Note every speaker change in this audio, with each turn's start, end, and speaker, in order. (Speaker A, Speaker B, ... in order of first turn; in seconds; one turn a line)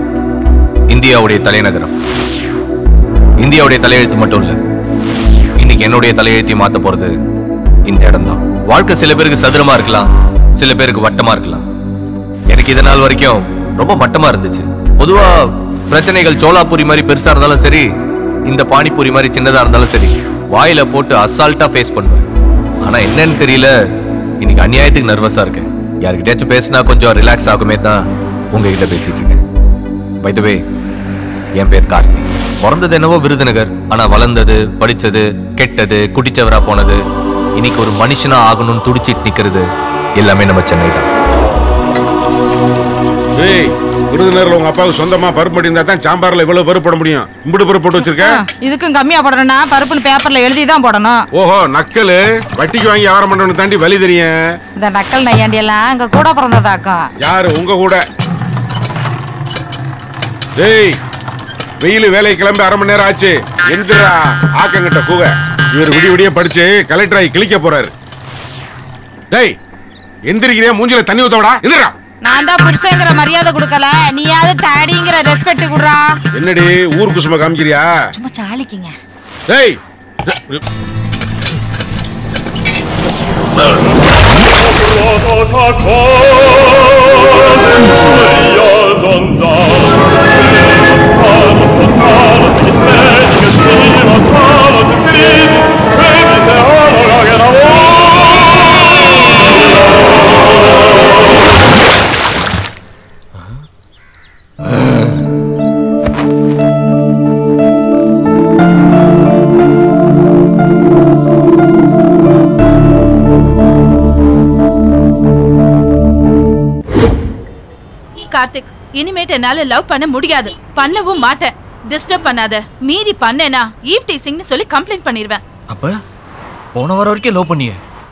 Speaker A: 0.9-1.9
Speaker A: 3.4-4.6
Speaker A: 5.6-7.1
Speaker A: 7.8-11.6
Speaker A: 12.5-15.3
Speaker A: 15.9-17.9
Speaker A: 18.5-22.2
Speaker A: 22.8-23.7
Speaker A: 24.4-29.4
Speaker A: 30.2-30.6
Speaker A: 31.6-37.0
Speaker A: 37.5-41.1
Speaker B: 43.4-48.4
Speaker C: 48.5-51.2
Speaker B: 51.3-54.3
Speaker C: 54.8-57.0
Speaker B: 57.2-58.0
Speaker B: 60.6-61.0
Speaker B: 61.8-67.9
Speaker B: 70.3-71.9
Speaker C: 72.3-76.0
Speaker B: 76.3-77.9
Speaker B: 79.5-80.6
Speaker A: 104.7-105.1
Speaker D: 118.3-125.4
Speaker A: 125.7-125.9
Speaker A: 126.7-127.8